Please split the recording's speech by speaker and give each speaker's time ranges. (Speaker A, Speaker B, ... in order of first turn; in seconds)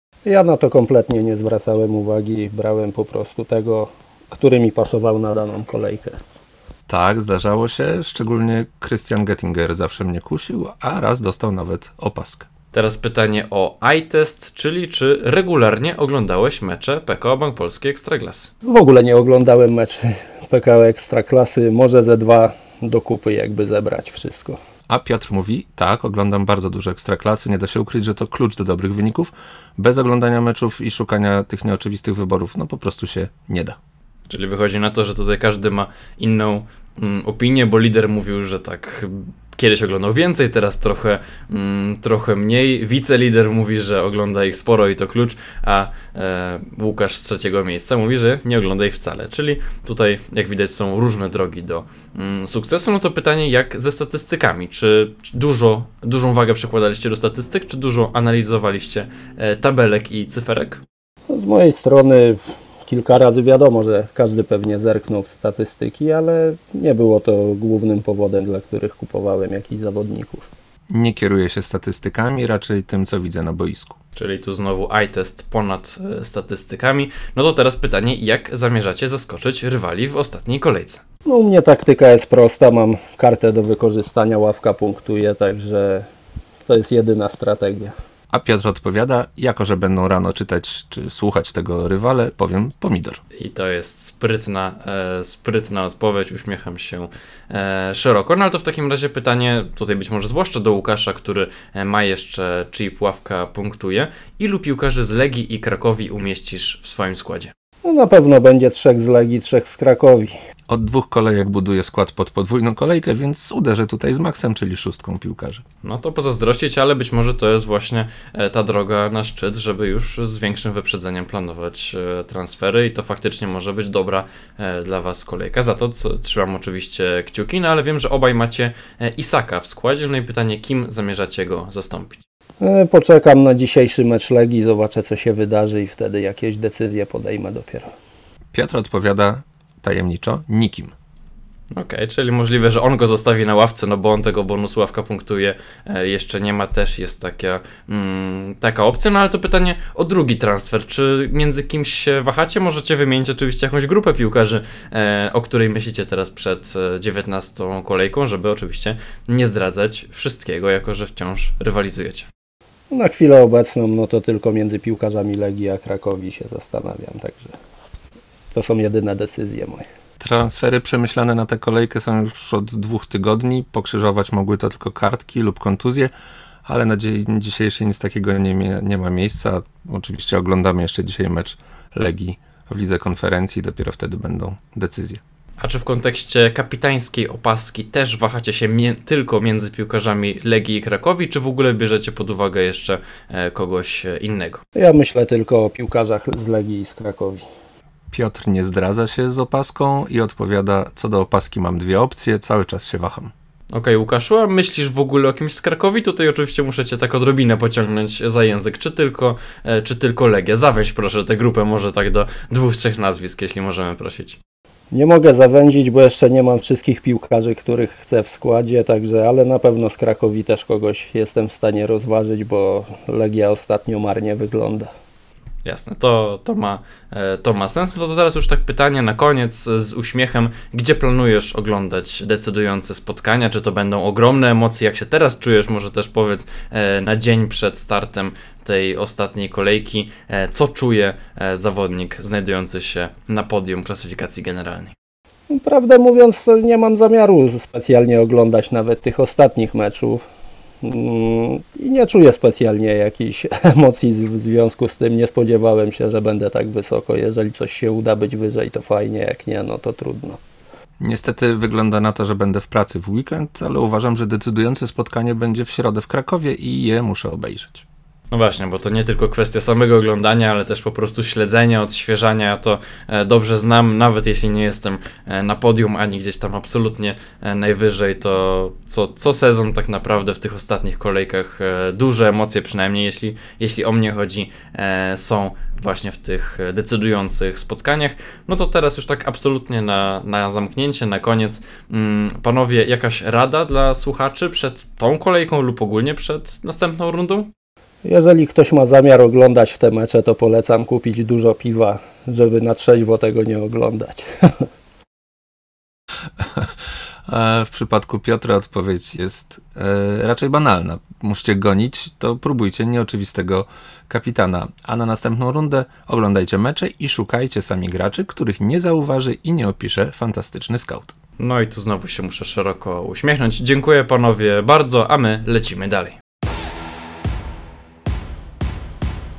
Speaker A: 0.3-6.2, 18.6-24.6, 61.3-70.5, 81.3-86.1, 86.7-87.9, 107.8-110.3, 132.6-137.9, 162.9-167.6, 168.5-169.8, 194.8-197.4, 214.9-224.9, 245.5-250.2, 250.8-260.4, 298.0-304.7
Speaker B: 6.9-12.5, 24.9-33.8, 70.9-74.0, 88.3-93.2, 110.7-115.6, 138.5-140.9, 170.2-176.1, 176.7-185.2, 198.1-203.3, 261.0-267.8, 306.4-306.7, 307.2-321.1
Speaker C: 12.7-18.5, 34.3-60.8, 74.2-81.0, 93.4-107.5, 115.8-132.2, 141.7-162.3, 185.6-194.6, 203.7-214.4, 225.6-244.9, 268.3-297.5, 321.4-326.2